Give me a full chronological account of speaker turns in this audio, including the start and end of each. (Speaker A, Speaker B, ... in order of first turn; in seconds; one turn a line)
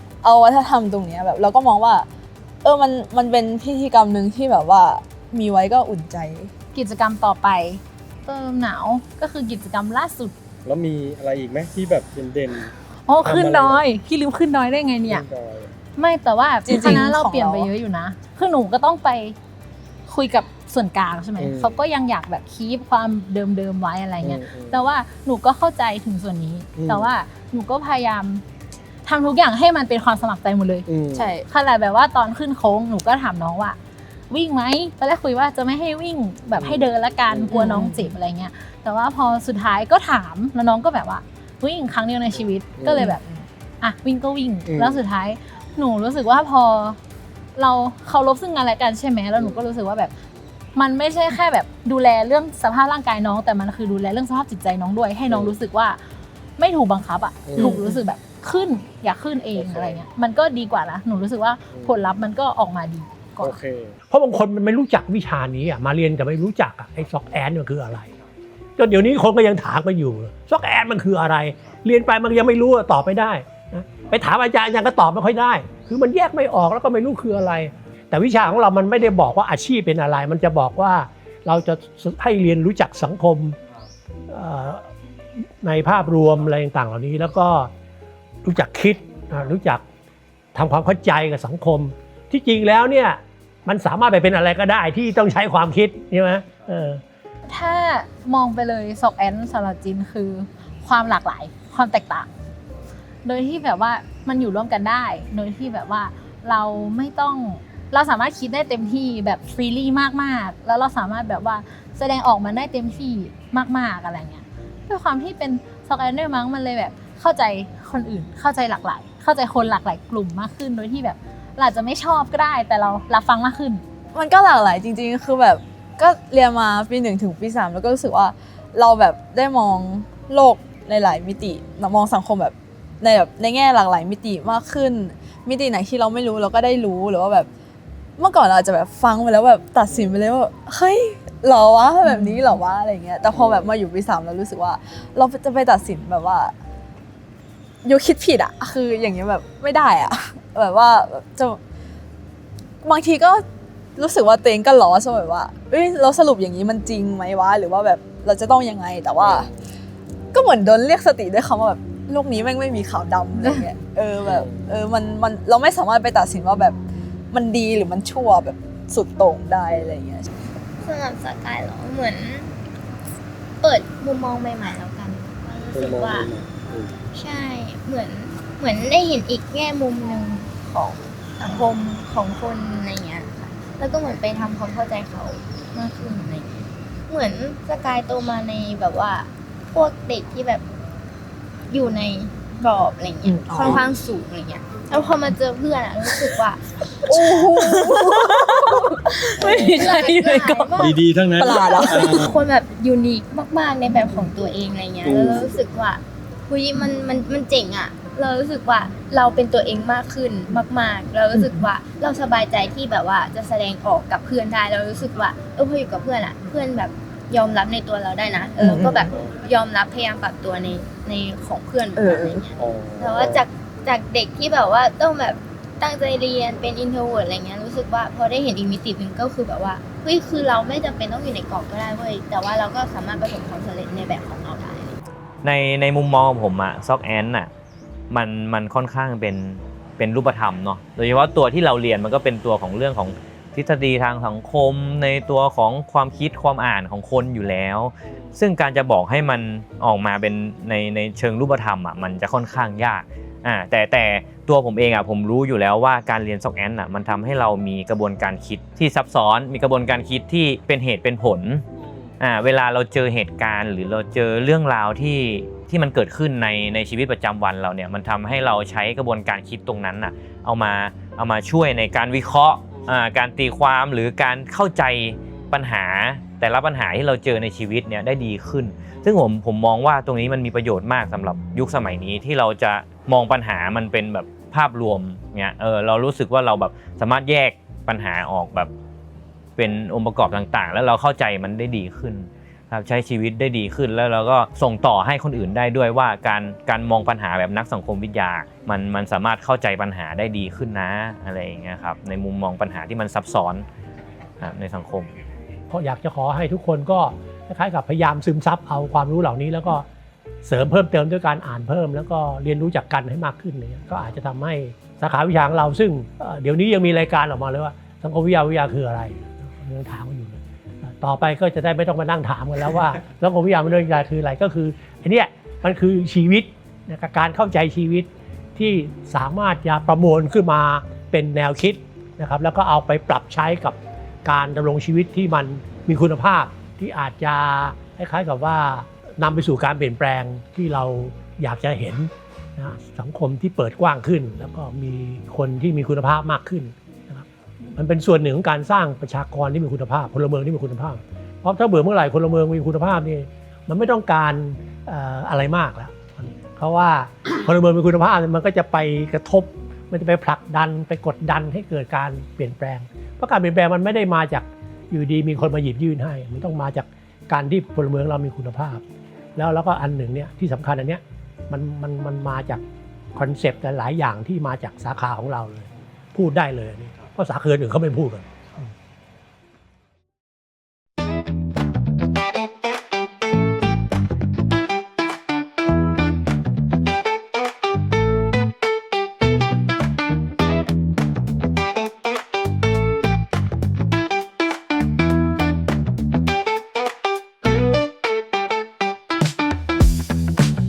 Speaker A: 0.2-2.1
Speaker A: 2.6-6.5
Speaker B: 6.7-10.3
Speaker C: 10.6-13.8
Speaker B: 13.1-15.2
Speaker C: 15.1-15.7
Speaker B: 15.9-19.4
Speaker A: 16.6-17.7
Speaker B: 20.1-28.4
Speaker C: 21.4-21.8
Speaker C: 24.2-24.9
Speaker C: 26.8-27.1
Speaker B: 29.1-30.9
Speaker C: 30.9-31.3
Speaker A: 31.1-31.4
Speaker B: 31.5-33.8
Speaker B: 34.3-43.2
Speaker C: 36.6-37.8
Speaker A: 37.5-38.1
Speaker C: 42.3-43.1
Speaker A: 42.9-43.4
Speaker B: 43.8-47.0
Speaker C: 44.7-45.0
Speaker B: 47.5-50.1
Speaker C: 49.4-49.6
Speaker B: 50.8-56.0
Speaker C: 55.3-55.6
Speaker B: 56.6-63.6
Speaker C: 57.5-57.8
Speaker A: 57.6-58.0
Speaker C: 59.5-60.0
Speaker C: 61.7-62.0
Speaker C: 63.4-64.0
Speaker D: 64.1-68.1
Speaker D: 68.8-83.6
Speaker D: 84.3-84.9
Speaker D: 85.4-87.7
Speaker D: 88.4-89.8
Speaker D: 90.5-97.0
Speaker B: 97.5-102.3
Speaker B: 103.2-123.8
Speaker A: 124.1-137.5
Speaker A: 138.2-146.5
Speaker C: 143.3-143.7
Speaker A: 147.8-151.6
Speaker A: 152.8-153.4
Speaker A: 153.9-159.5
Speaker C: 159.2-159.6
Speaker A: 160.3-166.8
Speaker C: 164.2-164.6
Speaker A: 167.3-170.3
Speaker E: 170.8-172.5
Speaker E: 173.6-176.3
Speaker C: 175.7-176.9
Speaker E: 177.1-190.6
Speaker E: 191.7-197.5
Speaker A: 193.2-193.9
Speaker A: 196.0-196.4
Speaker A: 197.1-200.7
Speaker C: 199.4-199.7
Speaker E: 199.4-201.0
Speaker B: 199.8-201.0
Speaker C: 200.8-202.3
Speaker A: 201.4-202.3
Speaker E: 202.1-235.0
Speaker C: 205.0-205.5
Speaker A: 211.3-211.7
Speaker A: 218.6-219.1
Speaker A: 221.9-222.4
Speaker C: 222.6-223.4
Speaker F: 235.4-237.5
Speaker F: 238.1-261.6
Speaker C: 248.0-248.4
Speaker C: 261.8-262.1
Speaker F: 262.2-288.7
Speaker C: 272.7-273.0
Speaker C: 275.3-275.5
Speaker C: 278.9-279.1
Speaker F: 289.6-303.6
Speaker F: 304.4-305.1
Speaker D: 305.7-309.9
Speaker D: 310.4-368.8
Speaker D: 369.4-372.6
Speaker D: 373.1-378.7